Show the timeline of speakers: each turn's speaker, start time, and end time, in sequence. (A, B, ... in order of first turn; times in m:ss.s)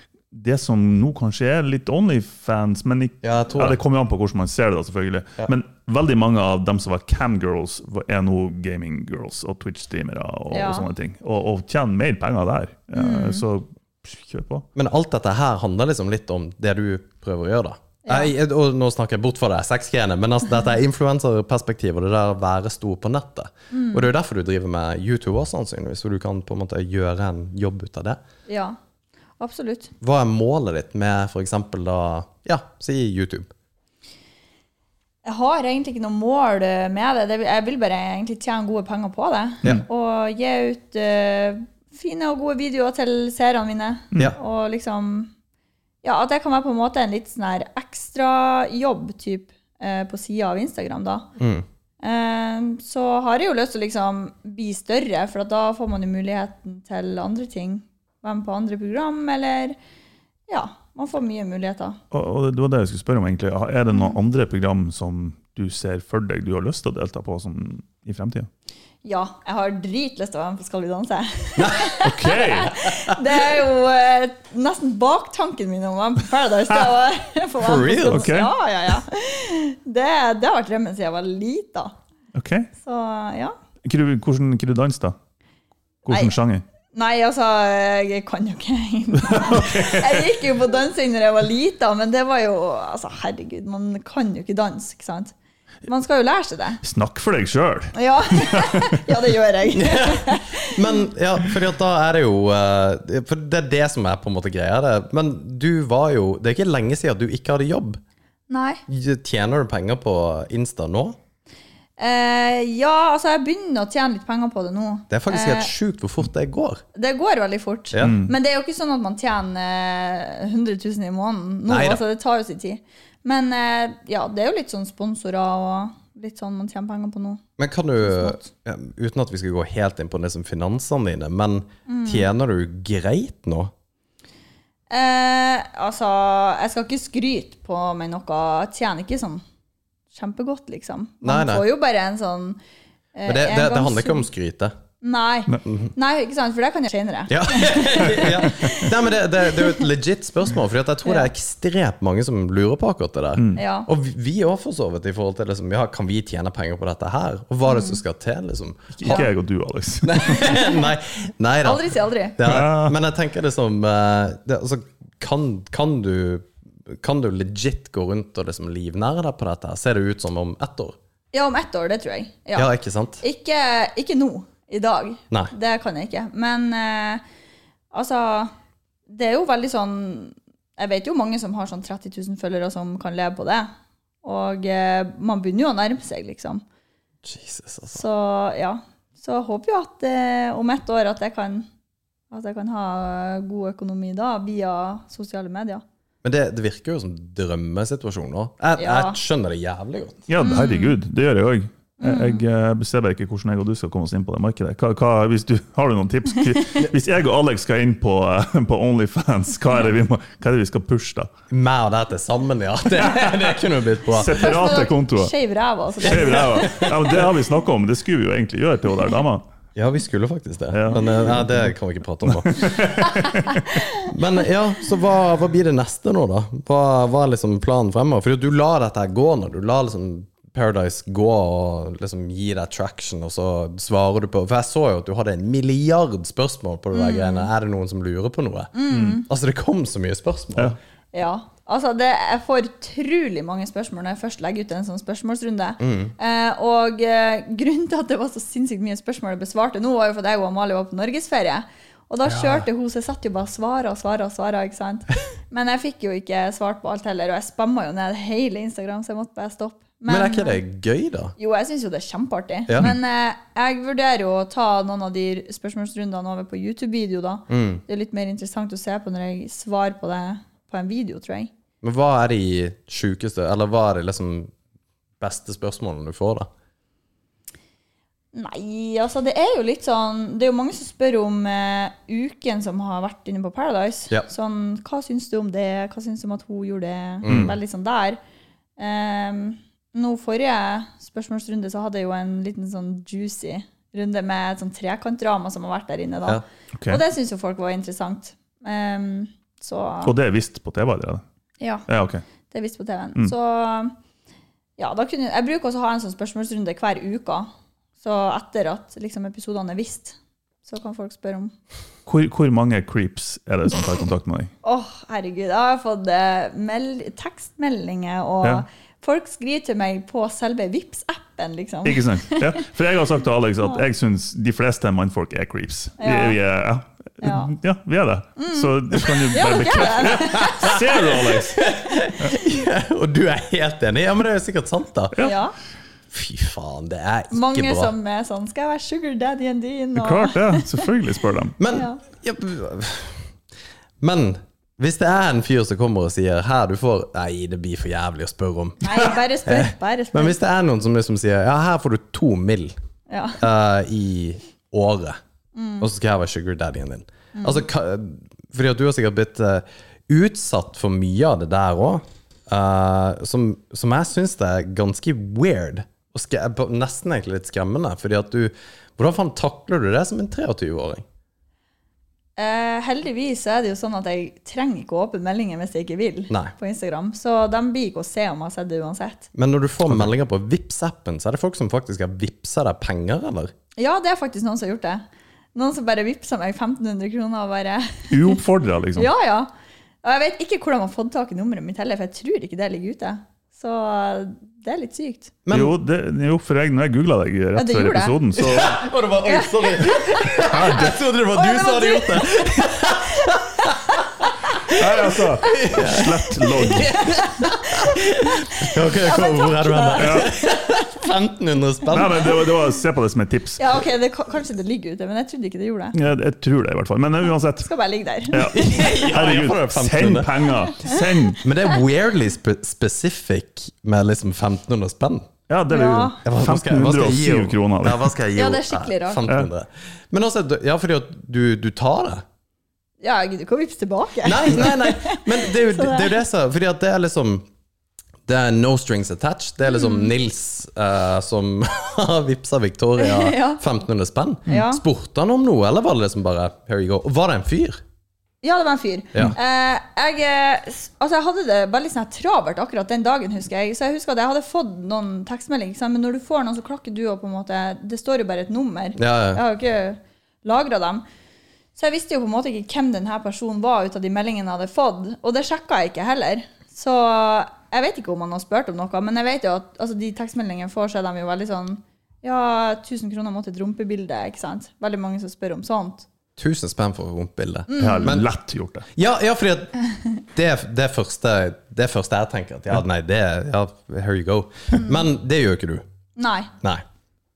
0:00.3-0:14.7 A
0:03.2-0:03.8 B
0:10.5-0:10.9 C
0:13.0-0:13.4 C
0:14.8-0:28.2 B
0:18.0-0:18.3 C
0:23.7-0:24.1 C
0:28.5-0:28.8 C
0:29.4-0:29.9 C
0:30.0-0:33.5 B
0:35.2-0:45.3 C
0:46.0-0:51.3 C
0:51.4-0:51.6 B
0:52.0-0:59.8 C
1:00.5-1:02.0 C
1:02.1-1:08.5 A
1:09.0-1:21.9 C
1:11.6-1:12.0 B
1:12.0-1:12.8 A
1:12.6-1:13.2 B
1:17.6-1:18.3 B
1:18.1-1:18.5 A
1:22.3-1:22.7 A
1:22.8-1:23.6 C
1:23.8-1:25.2 A
1:26.1-1:26.6 A
1:26.9-1:35.3 C
1:29.2-1:30.3 A
1:35.9-1:36.8 C
1:36.8-1:39.0 A
1:37.9-1:41.0 C
1:39.7-1:48.0 B
1:48.5-1:48.8 C
1:48.9-1:51.2 B
1:52.0-1:55.7 C
1:55.1-1:56.8 B
1:57.0-2:07.4 C
1:58.0-1:58.3 A
2:01.7-2:02.0 B
2:07.6-2:13.7 B
2:08.0-2:08.5 C
2:11.9-2:12.3 C
2:14.9-2:19.4 C
2:20.1-2:22.6 C
2:21.2-2:21.6 B
2:23.2-2:24.3 C
2:23.3-2:24.8 B
2:25.0-2:29.8 C
2:25.7-2:25.9 B
2:27.3-2:39.3 B
2:33.6-2:33.9 C
2:37.6-2:38.0 C
2:39.0-2:40.5 A
2:40.0-2:51.0 B
2:41.6-2:42.4 C
2:42.4-2:43.0 A
2:51.3-2:57.2 C
2:52.6-2:53.2 B
2:57.9-2:58.5 C
2:59.1-3:03.7 C
3:04.2-3:06.6 C
3:07.2-3:08.0 B
3:07.9-3:11.7 C
3:12.3-3:15.8 C
3:16.2-3:20.2 B
3:18.8-3:19.2 C
3:20.3-3:31.3 A
3:20.4-3:21.0 C
3:22.0-3:22.4 C
3:31.5-3:34.6 B
3:34.1-3:35.3 A
3:34.2-3:36.9 C
3:36.0-3:37.3 B
3:36.0-3:39.4 A
3:39.8-3:42.9 B
3:40.7-3:41.6 A
3:42.3-3:43.6 A
3:43.1-3:44.1 C
3:44.1-4:00.8 B
3:56.9-3:57.5 C
3:58.7-3:59.3 C
3:58.9-3:59.2 A
4:01.1-4:20.6 C
4:05.8-4:06.2 B
4:12.2-4:12.7 B
4:20.1-4:21.4 B
4:21.4-4:31.5 C
4:22.7-4:22.9 B
4:27.5-4:27.8 B
4:31.8-4:34.5 B
4:35.2-4:36.5 B
4:38.3-4:48.2 C
4:47.2-4:47.6 B
4:47.3-4:47.5 A
4:48.8-5:00.1 C
5:00.0-5:01.2 A
5:01.6-5:01.8 C
5:01.9-5:02.2 A
5:02.5-5:04.0 C
5:04.8-5:07.5 C
5:08.0-5:11.5 C
5:12.1-5:14.5 A
5:14.6-5:22.6 C
5:21.8-5:32.3 A
5:26.0-5:26.4 C
5:27.2-5:27.5 C
5:28.4-5:31.1 C
5:30.0-5:35.2 B
5:35.2-5:35.5 C
5:36.1-5:37.9 B
5:37.3-5:40.9 C
5:40.0-5:41.6 A
5:41.6-5:43.3 B
5:41.7-5:42.0 C
5:44.0-5:52.7 B
5:48.8-5:50.4 C
5:53.1-5:53.4 C
5:53.4-5:55.2 B
5:55.6-5:55.9 C
5:55.8-6:11.0 B
5:57.4-5:57.6 C
6:12.4-6:19.3 C
6:19.4-6:23.5 B
6:23.8-6:25.0 C
6:25.6-6:28.4 C
6:28.1-6:29.1 A
6:29.0-6:29.5 C
6:30.0-6:35.3 C
6:35.5-6:35.8 B
6:35.5-6:38.8 A
6:37.6-6:38.2 C
6:38.4-6:43.8 B
6:39.2-6:44.0 C
6:40.5-6:40.9 A
6:44.7-6:47.0 A
6:44.7-6:52.5 B
6:46.7-6:51.0 C
6:50.0-6:50.3 A
6:51.9-6:53.6 A
6:53.6-6:56.0 C
6:55.9-6:57.7 A
6:57.6-6:58.9 C
6:58.3-7:01.4 A
6:58.5-7:00.3 B
7:01.4-7:05.3 B
7:05.5-7:08.1 A
7:05.7-7:06.2 C
7:06.2-7:12.2 B
7:08.4-7:09.2 C
7:13.0-7:16.2 C
7:14.2-7:17.5 B
7:18.3-7:27.8 B
7:19.7-7:20.1 C
7:23.0-7:23.6 C
7:24.5-7:24.8 C
7:28.4-7:41.0 C
7:39.0-7:39.4 B
7:41.8-7:56.1 C
7:56.4-7:58.3 B
7:57.7-7:58.2 C
7:57.8-7:58.9 A
7:59.0-7:59.7 B
8:00.2-8:05.8 B
8:04.7-8:05.1 C
8:06.2-8:06.5 C